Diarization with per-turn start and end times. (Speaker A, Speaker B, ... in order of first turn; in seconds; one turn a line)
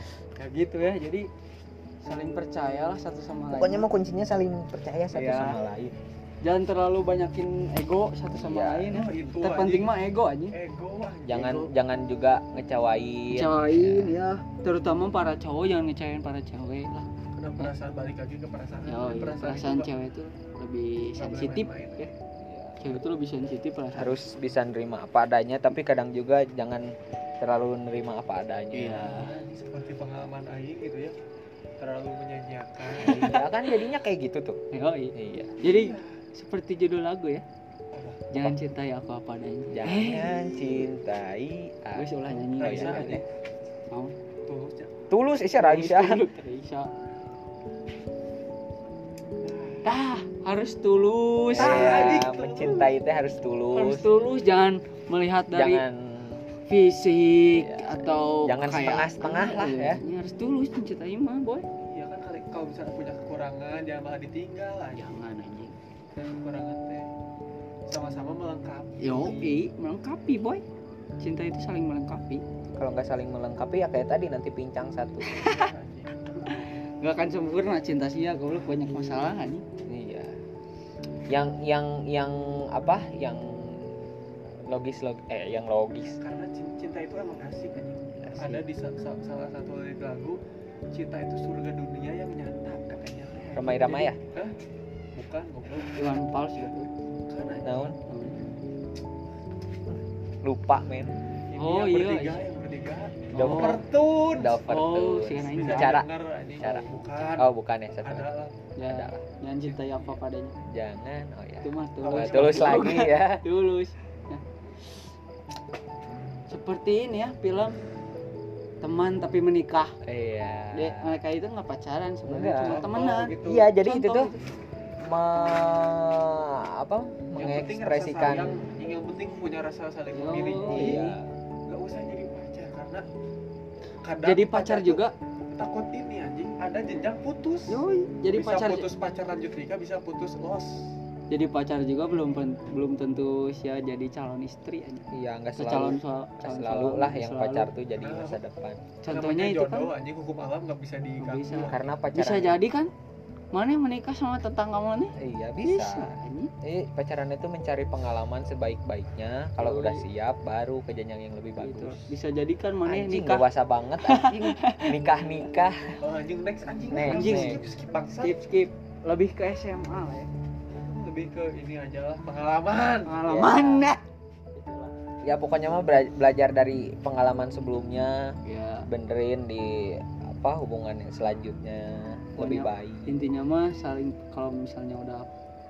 Speaker A: 0.4-1.3
Speaker A: 2.0-3.9
Speaker B: 3.5-6.0
Speaker A: 5.1-5.6
Speaker A: 6.4-10.6
Speaker B: 8.3-9.0
Speaker C: 8.9-9.9
Speaker C: 10.5-11.7
Speaker B: 11.3-14.2
Speaker A: 13.3-17.1
Speaker C: 17.4-19.9
Speaker A: 18.9-22.1
Speaker C: 21.2-22.1
Speaker B: 22.4-23.0
Speaker A: 22.8-24.2
Speaker B: 23.9-29.2
Speaker A: 28.7-29.3
Speaker C: 29.0-31.2
Speaker C: 31.8-33.4
Speaker B: 33.0-34.6
Speaker A: 33.0-33.4
Speaker A: 34.7-37.4
Speaker B: 35.1-35.6
Speaker C: 35.6-36.1
Speaker C: 37.9-38.2
Speaker A: 38.3-40.9
Speaker B: 39.7-43.2
Speaker A: 42.0-43.2
Speaker C: 42.6-43.2
Speaker A: 43.9-44.2
Speaker C: 44.5-44.9
Speaker B: 45.1-46.2
Speaker A: 45.6-46.9
Speaker C: 49.4-49.9
Speaker A: 49.9-52.3
Speaker B: 51.5-54.1
Speaker C: 51.6-52.9
Speaker A: 53.7-55.8
Speaker B: 55.5-56.5
Speaker A: 56.7-61.7
Speaker B: 57.5-60.0
Speaker C: 61.9-65.1
Speaker A: 64.9-65.8
Speaker C: 66.2-67.1
Speaker C: 67.9-69.4
Speaker A: 69.0-70.6
Speaker A: 71.2-72.4
Speaker B: 72.7-75.3
Speaker A: 75.2-75.7
Speaker C: 75.4-76.6
Speaker A: 76.5-79.6
Speaker B: 79.9-80.4
Speaker B: 81.3-83.9
Speaker B: 84.5-86.2
Speaker C: 86.2-90.4
Speaker A: 88.2-88.6
Speaker C: 90.9-94.6
Speaker B: 93.5-94.2
Speaker C: 95.2-96.2
Speaker A: 95.7-96.9
Speaker C: 97.3-97.9
Speaker B: 97.6-98.0
Speaker A: 98.0-98.5
Speaker B: 100.4-101.2
Speaker C: 101.5-104.6
Speaker A: 101.6-102.5
Speaker A: 103.3-103.8
Speaker B: 103.3-106.1
Speaker A: 104.6-106.0
Speaker C: 105.4-107.5
Speaker A: 106.6-107.2
Speaker B: 106.6-108.3
Speaker C: 108.0-108.6
Speaker A: 108.8-110.6
Speaker B: 108.9-109.2
Speaker C: 109.6-110.2
Speaker B: 110.7-113.5
Speaker A: 111.6-114.4
Speaker C: 112.0-113.0
Speaker A: 116.5-117.8
Speaker A: 118.8-120.0
Speaker B: 120.0-121.1
Speaker A: 120.7-124.4
Speaker B: 122.3-124.3
Speaker C: 122.6-123.7
Speaker B: 125.0-128.6
Speaker C: 127.4-131.1
Speaker A: 130.1-131.1
Speaker B: 130.7-131.2
Speaker C: 131.7-133.1
Speaker C: 134.0-140.9
Speaker A: 134.2-135.1
Speaker A: 137.7-138.9
Speaker A: 141.3-145.1
Speaker B: 145.1-148.8
Speaker A: 145.6-147.7
Speaker C: 147.9-148.4
Speaker A: 149.0-149.9
Speaker C: 149.1-151.9
Speaker A: 151.2-152.9
Speaker B: 151.7-152.6
Speaker A: 153.5-156.5
Speaker B: 155.2-162.1
Speaker A: 159.6-160.1
Speaker A: 161.6-163.4
Speaker B: 162.9-166.0
Speaker A: 164.0-164.9
Speaker C: 166.0-168.4
Speaker A: 166.9-167.6
Speaker B: 166.9-167.6
Speaker A: 168.2-170.3
Speaker C: 170.7-173.2
Speaker A: 173.1-174.0
Speaker B: 173.3-173.9
Speaker A: 174.6-174.9
Speaker B: 175.2-183.2
Speaker A: 178.4-178.9
Speaker A: 182.4-185.3